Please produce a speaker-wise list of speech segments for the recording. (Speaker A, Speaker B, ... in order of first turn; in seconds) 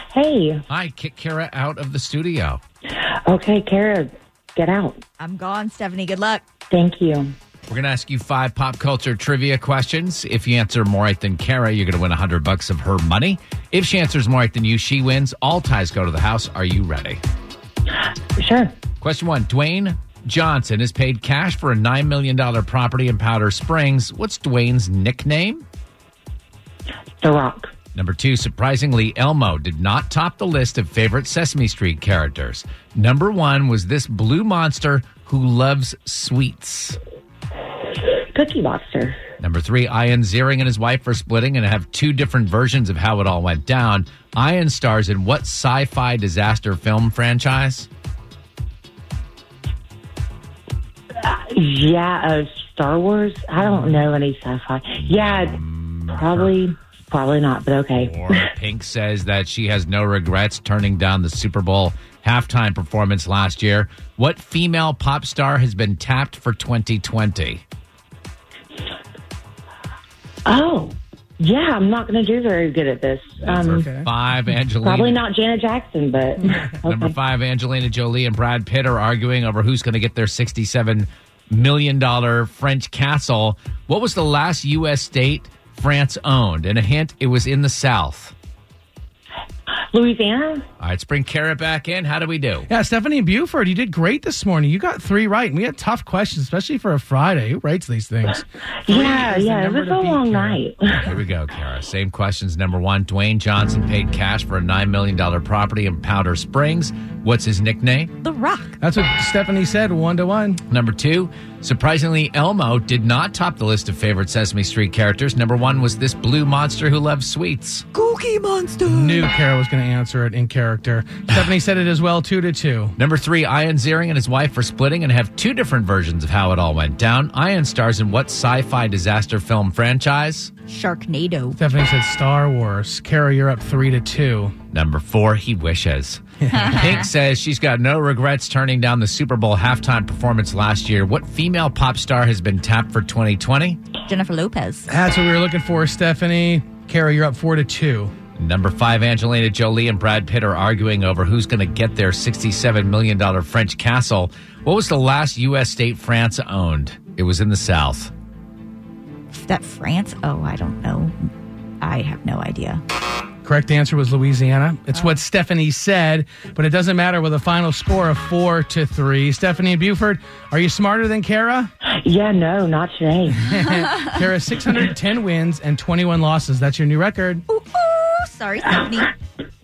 Speaker A: 0.1-0.6, 3.3-5.0, 6.7-7.3, 18.4-18.8, 27.2-27.7, 38.3-39.2, 51.2-55.6, 56.1-58.5, 70.5-73.9, 74.8-77.1, 89.9-90.6, 98.8-101.1, 171.8-173.5
Speaker B: 0.7-2.6, 7.7-17.2, 19.0-25.7, 27.9-37.0, 39.4-47.9, 55.0-56.5, 57.9-67.6, 73.4-75.2, 76.9-88.3, 90.8-92.7, 101.1-108.1, 110.7-117.9, 123.0-130.5, 134.7-143.8, 148.4-158.1
Speaker C: 5.2-6.4, 108.2-108.8, 117.9-119.3, 130.7-131.6, 144.1-145.0, 159.3-161.1, 161.8-162.8, 177.5-179.1
Speaker D: 73.6-74.1, 92.7-100.6, 108.8-110.6, 118.9-122.9, 131.6-134.5, 136.4-136.7, 144.9-148.1, 163.4-171.7, 173.4-177.4